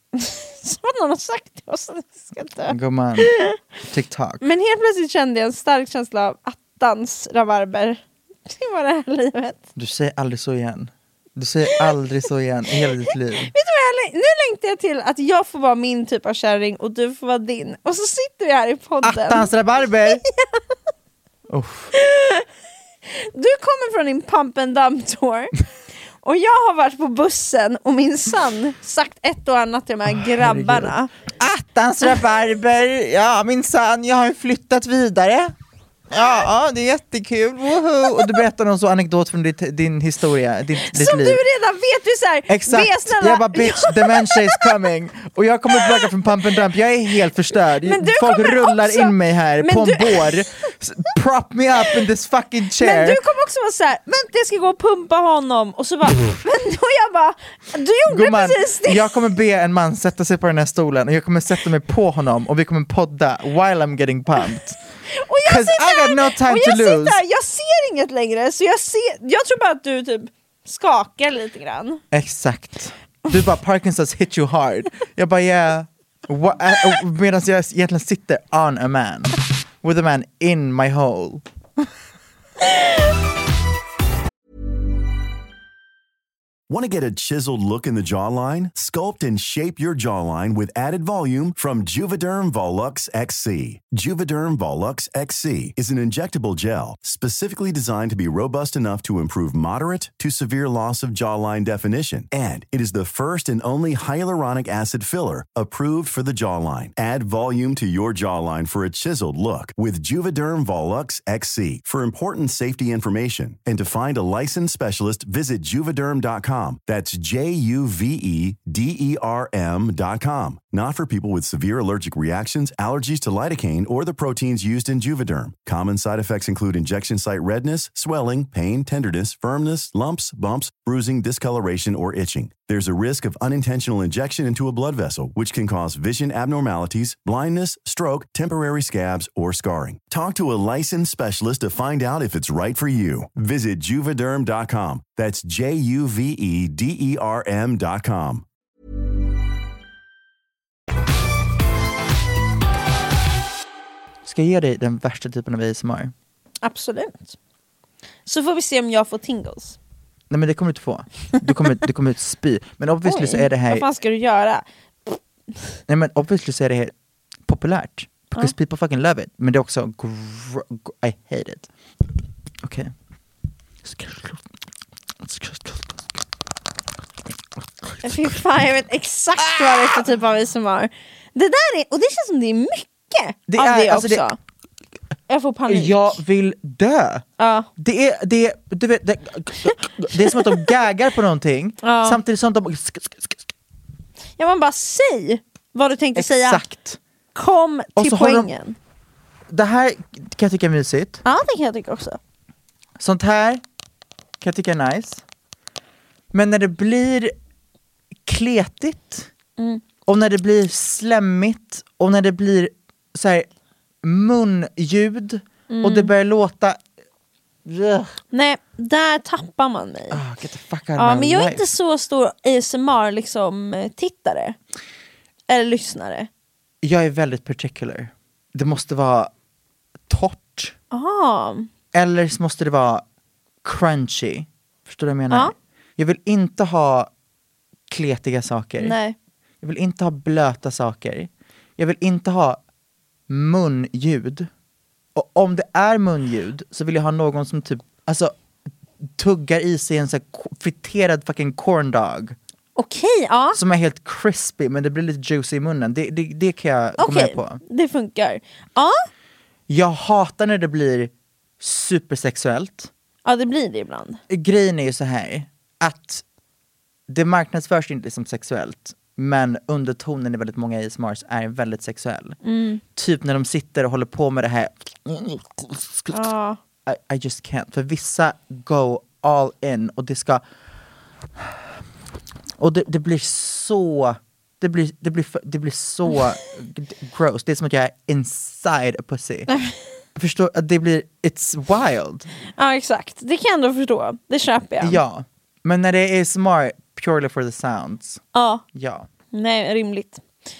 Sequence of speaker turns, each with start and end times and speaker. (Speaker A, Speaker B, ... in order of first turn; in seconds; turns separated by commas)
Speaker A: 0.1-3.6, Speaker B: 2.7-3.3, Speaker B: 3.9-4.4, Speaker A: 4.4-9.6, Speaker B: 9.8-13.5, Speaker A: 13.5-19.5, Speaker B: 19.0-20.2, Speaker A: 20.0-20.4, Speaker B: 21.5-21.9, Speaker A: 21.9-22.4, Speaker A: 23.1-25.6, Speaker A: 26.2-31.1, Speaker B: 30.1-35.5, Speaker B: 36.1-41.4, Speaker A: 40.8-44.7, Speaker B: 42.5-53.2, Speaker A: 45.7-46.1, Speaker A: 47.8-50.4, Speaker A: 52.8-59.0, Speaker B: 58.1-64.8, Speaker A: 65.1-72.0, Speaker B: 65.4-67.2, Speaker B: 72.1-81.4, Speaker C: 86.7-148.4, Speaker B: 154.2-156.1, Speaker A: 156.6-157.3, Speaker A: 158.2-159.8, Speaker B: 160.3-163.8, Speaker A: 163.0-165.2, Speaker B: 165.9-166.9, Speaker B: 167.4-171.7, Speaker B: 172.6-172.9, Speaker B: 173.8-174.4, Speaker B: 175.2-176.1, Speaker B: 177.9-178.3, Speaker A: 178.0-184.4, Speaker B: 179.4-180.0, Speaker B: 183.5-184.2, Speaker A: 185.3-186.2, Speaker B: 185.7-187.2, Speaker A: 187.4-187.7, Speaker B: 187.8-193.5, Speaker A: 190.1-190.6, Speaker A: 191.8-192.2, Speaker A: 194.4-196.6, Speaker B: 196.1-197.0, Speaker A: 197.3-198.8, Speaker B: 197.9-198.5, Speaker B: 199.5-201.2, Speaker A: 201.2-202.2, Speaker B: 203.0-203.6, Speaker B: 204.4-205.2, Speaker B: 206.3-207.3, Speaker B: 208.2-209.3, Speaker B: 210.1-213.5, Speaker B: 214.0-216.8, Speaker A: 215.7-216.1, Speaker B: 217.6-218.2, Speaker A: 218.3-220.2, Speaker B: 220.1-221.7, Speaker A: 221.0-224.6, Speaker A: 225.5-226.3, Speaker B: 226.8-229.3, Speaker B: 230.1-230.7, Speaker A: 230.9-231.7, Speaker B: 231.9-233.0, Speaker B: 233.6-237.1, Speaker B: 237.9-239.0, Speaker A: 238.8-239.2, Speaker B: 239.6-242.6, Speaker B: 243.3-244.5, Speaker B: 245.1-248.3, Speaker B: 249.1-252.3, Speaker A: 252.8-253.6, Speaker B: 253.5-257.6, Speaker A: 257.0-259.1, Speaker B: 259.7-262.9, Speaker A: 263.2-264.2, Speaker B: 264.3-266.2, Speaker B: 267.1-272.4, Speaker A: 272.4-272.8, Speaker B: 272.9-276.3, Speaker A: 276.1-276.6, Speaker B: 276.9-280.4, Speaker B: 282.6-289.5, Speaker A: 289.5-289.8, Speaker B: 290.1-292.3, Speaker A: 292.6-295.0, Speaker B: 294.8-298.2, Speaker A: 298.3-298.6, Speaker B: 298.7-299.1, Speaker A: 299.3-300.2